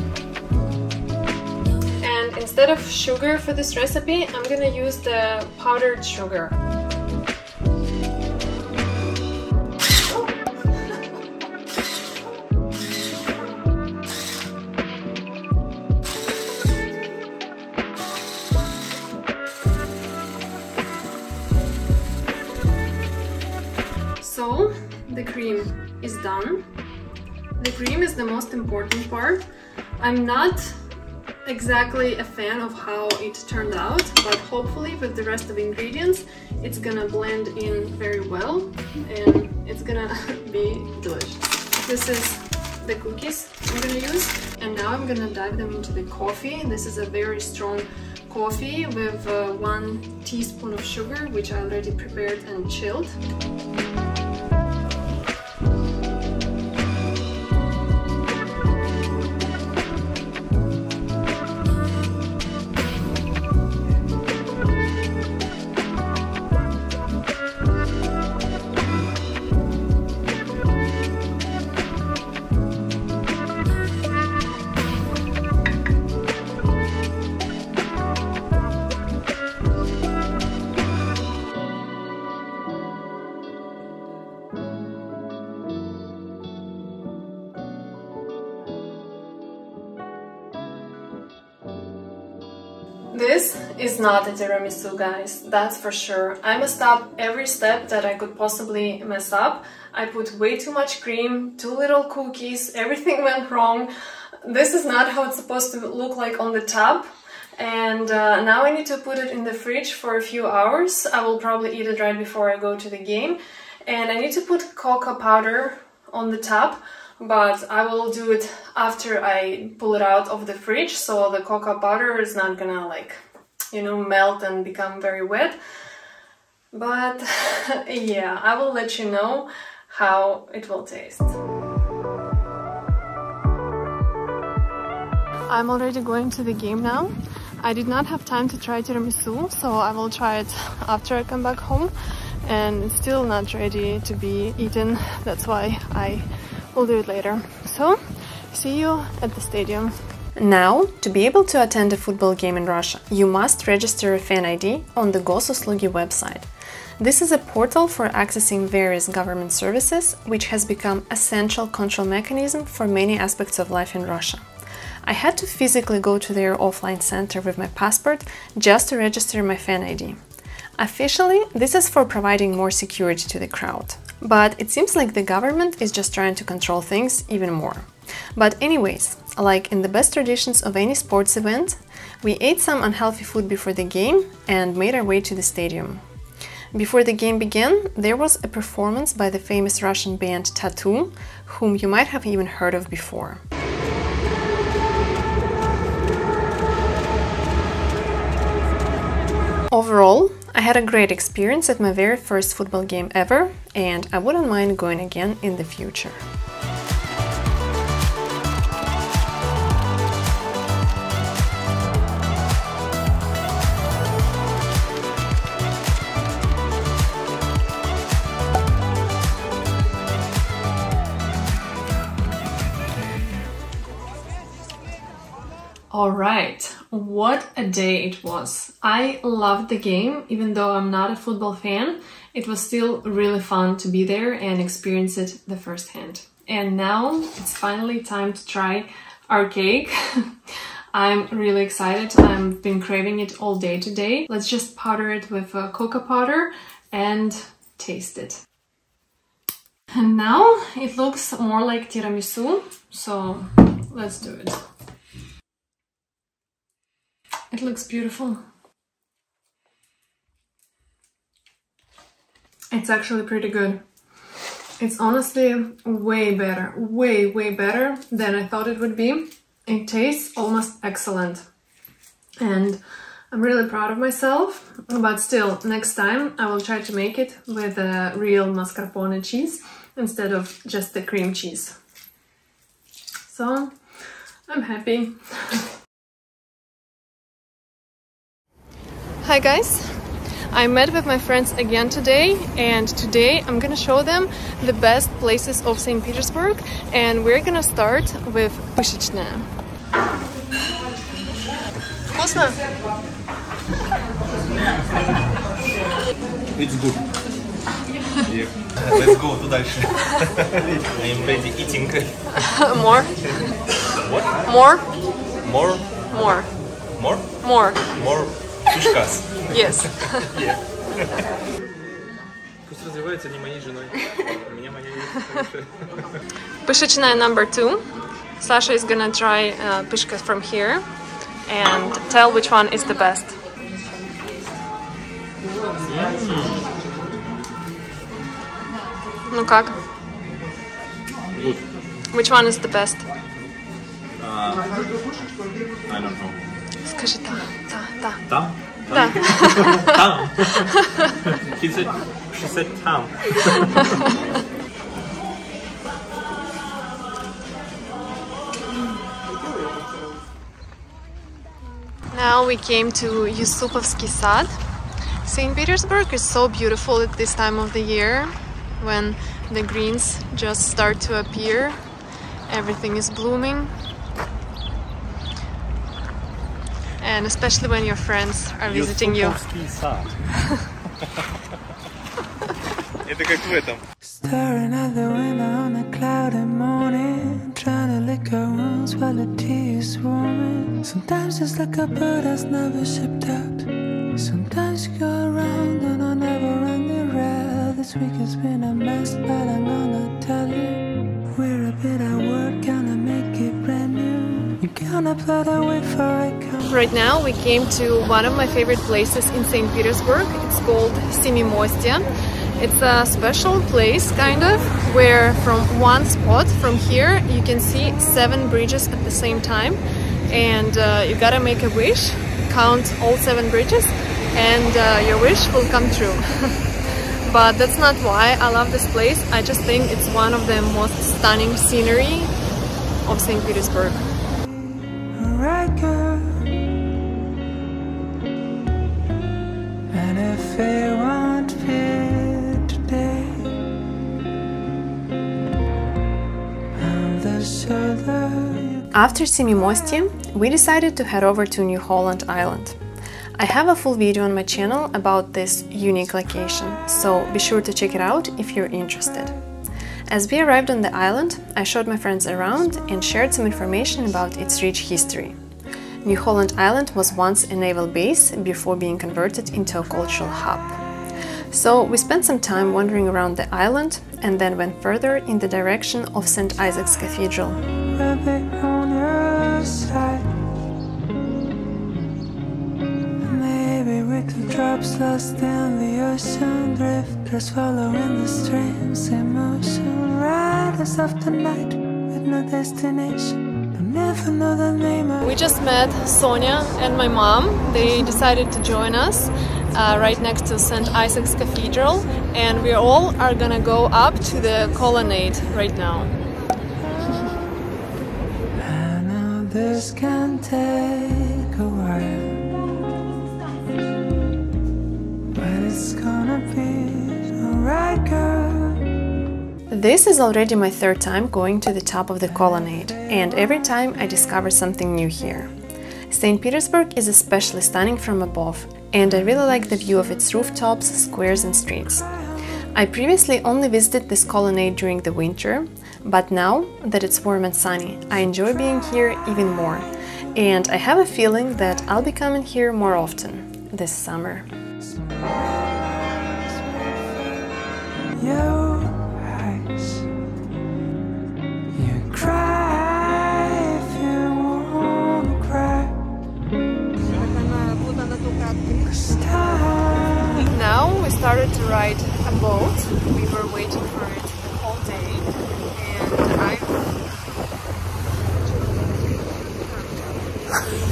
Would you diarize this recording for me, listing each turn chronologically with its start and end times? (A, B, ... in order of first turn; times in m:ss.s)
0:02.0-0:06.6 A
0:24.2-0:26.7 A
0:27.6-0:29.4 A
0:30.0-0:30.7 A
0:31.5-0:53.2 A
1:33.1-1:43.9 A
1:44.4-2:03.2 A
2:03.7-2:05.6 A
2:06.7-2:11.4 A
2:15.5-2:21.9 A
2:22.4-2:28.0 A
2:28.5-2:36.5 A
2:37.0-2:44.4 A
2:45.0-2:50.2 A
2:50.8-3:06.0 A
3:06.7-3:13.4 A
3:19.7-3:26.2 A
3:45.9-4:00.3 A
4:00.9-4:08.4 A
4:10.0-4:14.6 A
4:17.5-4:18.4 A
4:22.7-4:23.8 A
4:24.8-4:31.4 A
4:32.4-4:32.8 A
4:33.3-4:41.8 A
4:43.3-4:43.8 A
4:44.5-4:45.6 A
4:49.2-4:50.0 A
4:50.5-4:59.5 A
5:02.1-5:02.6 A
5:08.3-5:12.4 B
5:12.3-5:13.2 A
5:13.9-5:14.4 B
5:14.5-5:14.8 A
5:15.4-5:16.0 B
5:16.1-5:16.5 A
5:17.0-5:17.3 B
5:17.4-5:17.8 A
5:17.9-5:21.2 B
5:19.5-5:20.3 A
5:22.7-5:26.0 B
5:26.6-5:27.8 A
5:28.4-5:30.8 A
5:31.5-5:33.4 A
5:35.9-5:36.7 B
5:39.3-5:39.8 A
5:41.3-5:41.7 B
5:42.1-5:43.0 A
5:44.2-5:44.8 B
5:45.9-5:46.6 B
5:46.8-5:48.2 A
5:48.3-5:50.7 B
5:48.9-5:51.2 A
5:51.3-5:54.1 B
6:02.1-6:04.5 A
6:05.2-6:11.8 A
6:12.5-6:13.7 A
6:17.0-6:19.5 A
6:18.7-6:20.1 B
6:23.0-6:23.8 B
6:24.1-6:46.8 C
6:46.7-6:52.1 A
6:52.6-7:12.3 A
7:13.0-7:14.1 A
7:15.0-7:16.4 C
7:19.9-7:23.6 C
7:26.8-7:28.9 C
7:28.9-7:32.8 A
7:33.4-7:39.4 A
7:40.1-7:45.4 A
7:46.0-7:50.8 A
7:51.5-7:57.6 A
7:57.9-8:00.3 C
8:03.2-8:15.3 C
8:15.2-8:26.1 A
8:28.6-8:32.6 C
8:35.4-8:38.8 C
8:39.7-8:45.5 A
8:46.1-8:52.1 A
8:52.8-9:04.5 A
9:05.2-9:07.3 C
9:08.2-9:10.1 C
9:11.8-9:16.0 C
9:17.3-9:17.8 A
9:18.8-9:20.5 C
9:20.5-9:26.9 A
9:29.7-9:30.2 A